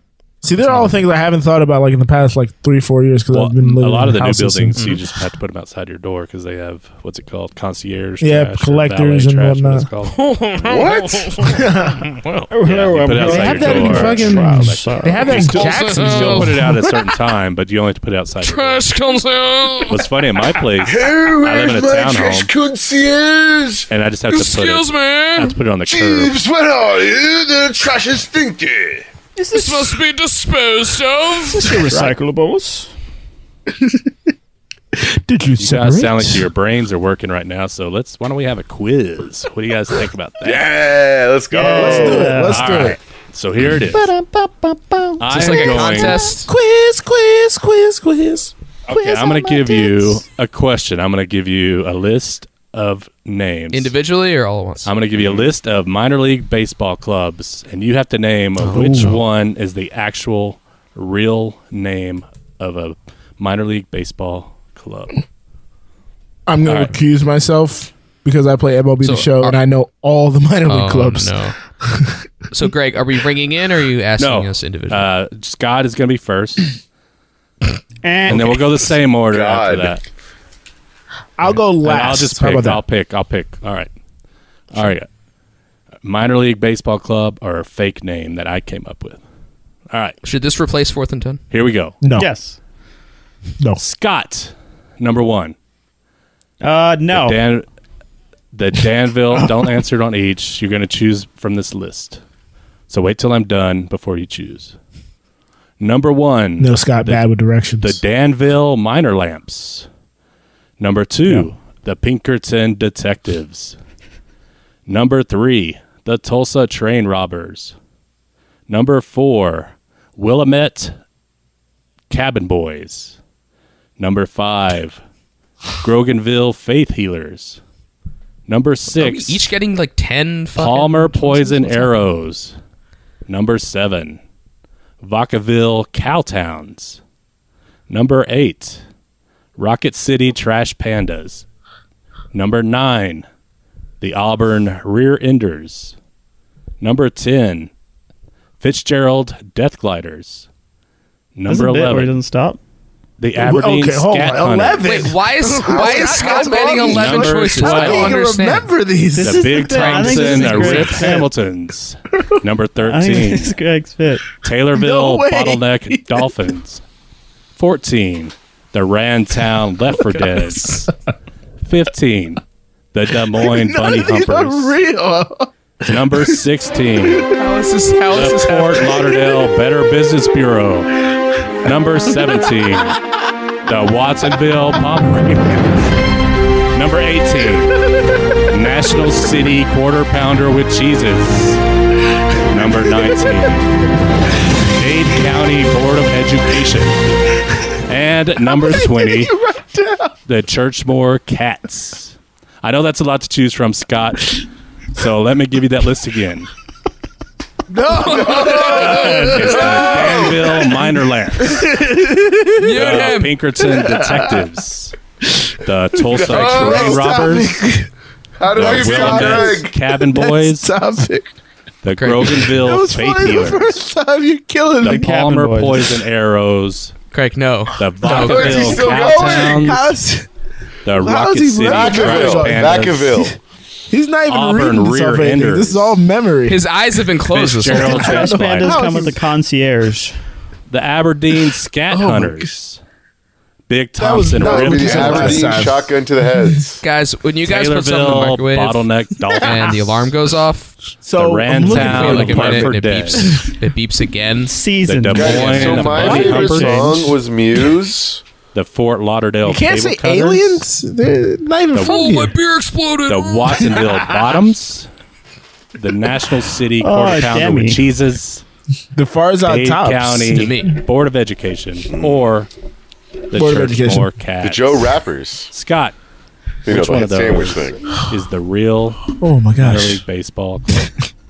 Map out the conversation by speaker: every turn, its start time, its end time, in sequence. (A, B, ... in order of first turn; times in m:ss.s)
0:00.4-0:04.8 A
0:00.6-0:01.0 B
0:03.3-0:10.1 C
0:04.8-0:05.0 B
0:08.2-0:09.9 A
0:10.0-0:12.5 B
0:10.6-0:11.5 D
0:11.5-0:12.0 A
0:12.5-0:15.3 E
0:12.6-0:18.8 C
0:13.1-0:17.0 A
0:15.4-0:16.5 B
0:18.4-0:20.0 B
0:19.9-0:22.5 C
0:20.8-0:23.9 D
0:23.9-0:26.4 C
0:24.3-0:25.5 B
0:25.8-0:29.1 D
0:29.4-0:30.0 E
0:29.5-0:31.7 B
0:31.5-0:32.2 A
0:31.7-0:32.9 E
0:33.7-0:34.1 A
0:34.9-0:36.5 A
0:35.6-0:40.7 C
0:40.4-0:42.5 D
0:41.5-0:42.9 E
0:41.7-0:43.0 A
0:42.4-0:44.1 C
0:44.1-0:45.1 E
0:45.2-0:46.3 C
0:45.3-0:46.5 B
0:45.5-0:48.5 A
0:48.9-0:53.9 C
0:48.9-0:49.8 E
0:53.7-0:54.9 B
0:54.8-1:05.2 C
0:55.1-0:55.5 D
0:58.6-0:59.2 B
0:58.6-0:59.2 A
1:06.5-1:12.2 A
1:06.6-1:07.0 C
1:09.0-1:09.6 B
1:10.6-1:11.6 B
1:12.5-1:15.1 B
1:14.2-1:16.7 C
1:18.0-1:18.6 E
1:18.3-1:20.0 C
1:19.3-1:20.0 D
1:21.4-1:22.8 A
1:21.8-1:23.9 C
1:24.7-1:25.1 C
1:26.0-1:29.2 C
1:29.9-1:30.2 C
1:30.2-1:31.4 B
1:31.5-1:32.0 C
1:32.0-1:32.3 A
1:32.2-1:32.6 E
1:33.8-1:35.5 C
1:36.6-1:37.4 E
1:37.1-1:37.6 C
1:38.5-1:42.2 C
1:42.9-1:44.7 C
1:45.8-1:47.3 C
1:46.6-1:48.0 A
1:47.8-1:49.9 C
1:50.8-1:53.8 C
1:54.8-1:57.7 C
1:58.7-2:00.9 C
2:02.1-2:03.2 C
2:04.0-2:05.0 C
2:05.8-2:07.6 C
2:08.5-2:09.4 C
2:08.9-2:12.0 B
2:10.5-2:12.6 C
2:13.3-2:14.2 C
2:15.0-2:17.0 C
2:17.9-2:18.8 C
2:19.6-2:21.4 C
2:22.3-2:23.2 C
2:24.0-2:25.9 C
2:26.8-2:27.7 C
2:28.6-2:30.5 C
2:31.4-2:32.2 C
2:31.5-2:32.6 E
2:33.2-2:34.8 C
2:33.4-2:39.6 A
2:34.8-2:38.7 B
2:35.7-2:36.0 D
2:36.1-2:38.2 C
2:39.1-2:41.3 E
2:39.2-2:43.6 C
2:39.7-2:41.1 B
2:42.8-2:44.3 E
2:44.4-2:46.8 C
2:44.7-2:46.4 A
2:47.6-2:50.9 C
2:51.6-2:52.4 C
2:52.9-2:54.8 C
2:53.3-2:56.4 A
2:55.8-2:57.3 C
2:57.3-2:58.9 B
2:58.1-3:01.0 C
3:01.6-3:03.0 C
3:03.6-3:05.8 C
3:06.7-3:07.8 C
3:08.4-3:11.6 C
3:12.4-3:13.7 C
3:13.0-3:13.5 A
3:14.7-3:17.0 C
3:17.8-3:19.4 C
3:18.4-3:20.1 A
3:20.3-3:26.5 C
3:27.7-3:30.8 A
3:28.0-3:29.1 B
3:28.1-3:29.0 D
3:28.3-3:31.7 C
3:29.9-3:30.4 D
3:31.4-3:33.0 A
3:32.6-3:33.3 B
3:32.7-3:35.0 C
3:33.6-3:34.4 A
3:35.6-3:37.5 C
3:36.1-3:37.2 D
3:36.1-3:37.9 A
3:38.4-3:39.7 D
3:38.5-3:40.7 C
3:38.5-3:41.3 A
3:41.8-3:43.8 C
3:42.0-3:42.5 B
3:42.2-3:45.1 A
3:44.8-3:46.9 C
3:44.8-3:45.9 E
3:47.1-3:48.7 B
3:47.8-3:49.9 C
3:48.0-3:50.3 A
3:48.1-3:49.7 D
3:50.8-3:53.1 C
3:50.8-3:53.4 A
3:51.7-3:53.4 D
3:53.9-3:56.6 A
3:54.3-3:56.0 C
3:56.5-3:58.2 B
3:57.3-3:58.8 C
3:57.7-3:59.2 A
3:57.9-4:00.2 E
4:00.7-4:02.8 C
4:01.9-4:02.5 A
4:03.7-4:05.6 C
4:04.0-4:06.6 A
4:04.4-4:06.8 D
4:06.8-4:08.9 B
4:07.4-4:10.1 C
4:09.4-4:10.7 B
4:11.0-4:13.5 A
4:11.2-4:13.3 C
4:11.6-4:14.6 B
4:14.4-4:17.2 E
4:14.8-4:17.0 C
4:15.1-4:18.2 D
4:15.2-4:16.3 B
4:18.5-4:20.6 C
4:19.4-4:22.4 A
4:21.7-4:22.1 C
4:21.8-4:23.7 B
4:23.1-4:24.9 C
4:23.7-4:24.0 A
4:25.8-4:28.4 C
4:26.8-4:27.8 E
4:28.9-4:30.7 A
4:29.4-4:32.5 C
4:30.3-4:30.8 B
4:31.9-4:32.2 D
4:33.3-4:35.0 C
4:33.3-4:34.1 A
4:34.4-4:35.5 D
4:35.5-4:35.9 C
4:36.6-4:37.8 D
4:36.6-4:40.9 C
4:39.1-4:40.0 A